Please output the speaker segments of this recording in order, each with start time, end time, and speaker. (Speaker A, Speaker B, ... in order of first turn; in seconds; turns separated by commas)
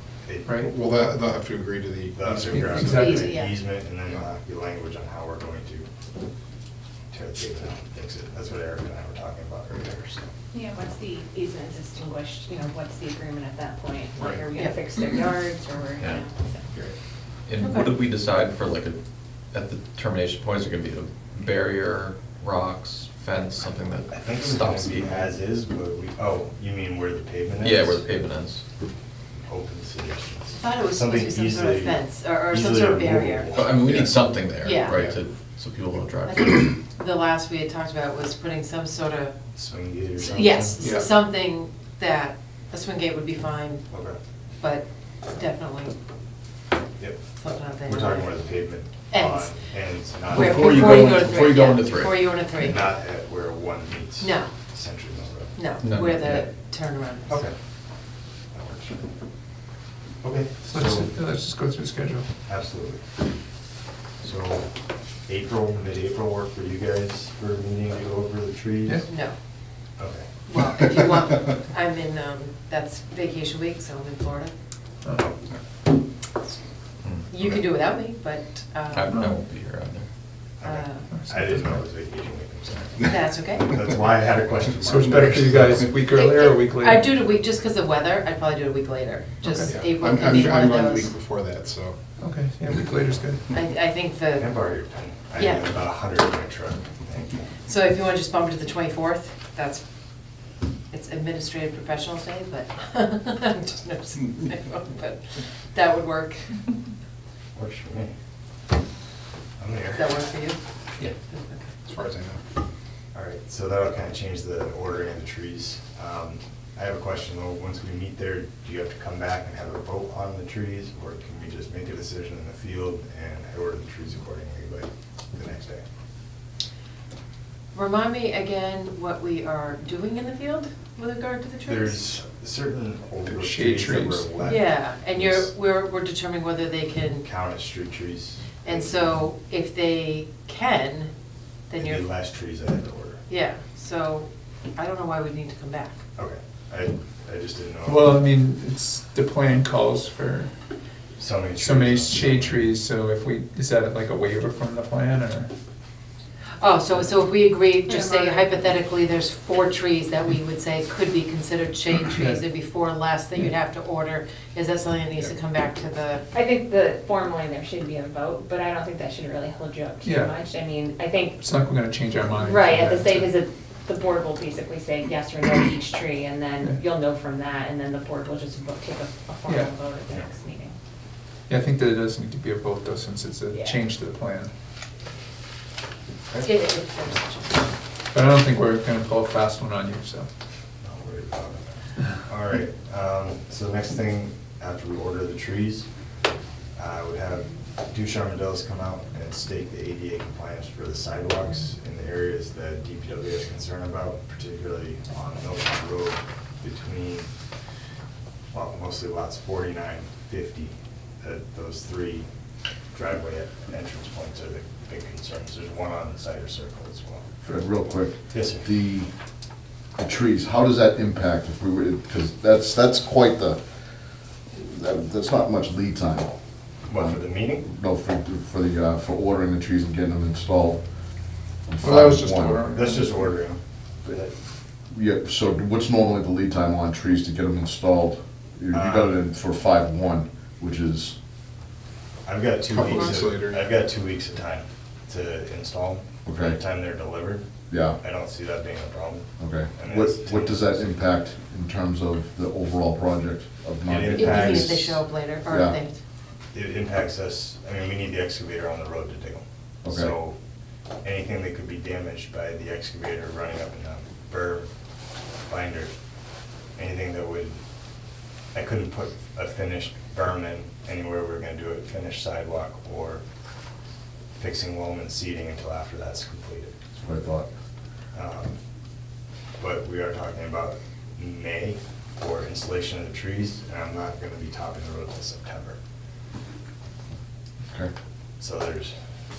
Speaker A: 0.2-0.5, Speaker B: 0.5-0.7, Speaker C: 0.6-3.2, Speaker A: 2.1-5.9, Speaker B: 2.5-3.3, Speaker D: 2.8-3.6, Speaker A: 7.1-10.3, Speaker E: 10.5-16.6, Speaker C: 14.2-14.5, Speaker F: 17.5-19.0, Speaker D: 17.6-17.9, Speaker F: 19.5-25.3, Speaker A: 24.1-28.1, Speaker F: 27.6-28.6, Speaker A: 29.5-34.1, Speaker D: 30.5-33.5, Speaker F: 33.5-36.6, Speaker C: 33.8-34.1, Speaker D: 34.6-35.0, Speaker C: 34.9-35.2, Speaker D: 36.2-39.4, Speaker A: 39.5-40.8, Speaker D: 40.2-43.9, Speaker A: 43.9-44.2, Speaker D: 44.6-45.9, Speaker D: 47.4-48.4, Speaker A: 47.9-51.3, Speaker D: 49.1-49.6, Speaker D: 50.2-52.8, Speaker F: 50.3-52.3, Speaker A: 52.5-55.6, Speaker D: 54.2-54.5, Speaker D: 55.6-57.4, Speaker F: 55.8-56.5, Speaker A: 57.3-57.5, Speaker A: 58.5-59.1, Speaker A: 60.2-61.1, Speaker B: 60.6-62.3, Speaker A: 62.5-63.0, Speaker A: 64.2-64.7, Speaker A: 65.3-69.0, Speaker D: 69.1-69.3, Speaker A: 70.0-70.3, Speaker D: 70.5-74.5, Speaker D: 77.3-79.2, Speaker A: 77.3-77.6, Speaker F: 78.9-80.1, Speaker A: 80.6-85.9, Speaker D: 80.6-81.1, Speaker B: 81.1-81.9, Speaker D: 83.0-83.7, Speaker B: 84.8-87.2, Speaker C: 85.0-85.9, Speaker D: 86.1-91.1, Speaker B: 89.4-89.7, Speaker C: 89.6-92.0, Speaker B: 92.2-93.5, Speaker D: 93.5-94.6, Speaker A: 94.4-97.5, Speaker D: 95.3-95.7, Speaker D: 97.7-99.8, Speaker D: 100.9-106.7, Speaker A: 107.5-108.1, Speaker A: 109.6-110.0, Speaker D: 109.9-110.6, Speaker D: 111.1-111.7, Speaker C: 111.9-112.4, Speaker A: 113.1-125.8, Speaker D: 127.7-132.1, Speaker A: 131.7-135.5, Speaker B: 133.3-134.3, Speaker D: 134.4-137.3, Speaker A: 137.2-139.2, Speaker D: 138.6-141.1, Speaker D: 141.7-142.1, Speaker A: 141.8-143.2, Speaker D: 143.3-146.0, Speaker A: 146.2-148.2, Speaker B: 147.8-150.5, Speaker A: 151.2-152.7, Speaker B: 151.6-155.5, Speaker D: 156.6-166.2, Speaker E: 157.9-158.5, Speaker B: 162.1-162.4, Speaker E: 166.3-171.4, Speaker B: 170.0-170.4, Speaker B: 171.4-173.3, Speaker E: 172.4-180.7, Speaker B: 179.5-179.7, Speaker B: 181.5-184.5, Speaker E: 183.5-183.8, Speaker D: 186.4-187.7, Speaker B: 188.1-190.3, Speaker A: 190.8-195.9, Speaker A: 196.8-207.3, Speaker A: 208.5-212.3, Speaker A: 212.9-217.3, Speaker G: 217.4-219.1, Speaker A: 218.3-218.7, Speaker G: 220.0-223.6, Speaker G: 224.5-226.4, Speaker A: 226.9-227.7, Speaker G: 226.9-230.8, Speaker G: 231.7-232.7, Speaker B: 231.8-233.3, Speaker A: 232.7-234.3, Speaker G: 234.9-241.2, Speaker A: 238.7-239.2, Speaker A: 242.2-247.4, Speaker C: 242.6-243.8, Speaker G: 246.2-246.6, Speaker G: 247.7-248.0, Speaker A: 248.0-251.0, Speaker G: 249.4-254.9, Speaker A: 253.8-255.0, Speaker D: 254.1-256.0, Speaker G: 255.5-255.8, Speaker A: 256.5-260.4, Speaker G: 259.9-260.1, Speaker A: 261.0-264.7, Speaker A: 265.5-265.9, Speaker A: 266.8-267.6, Speaker A: 268.5-273.2, Speaker A: 274.4-276.8, Speaker G: 277.0-277.5, Speaker A: 278.1-278.6, Speaker A: 279.6-285.8, Speaker A: 288.4-288.9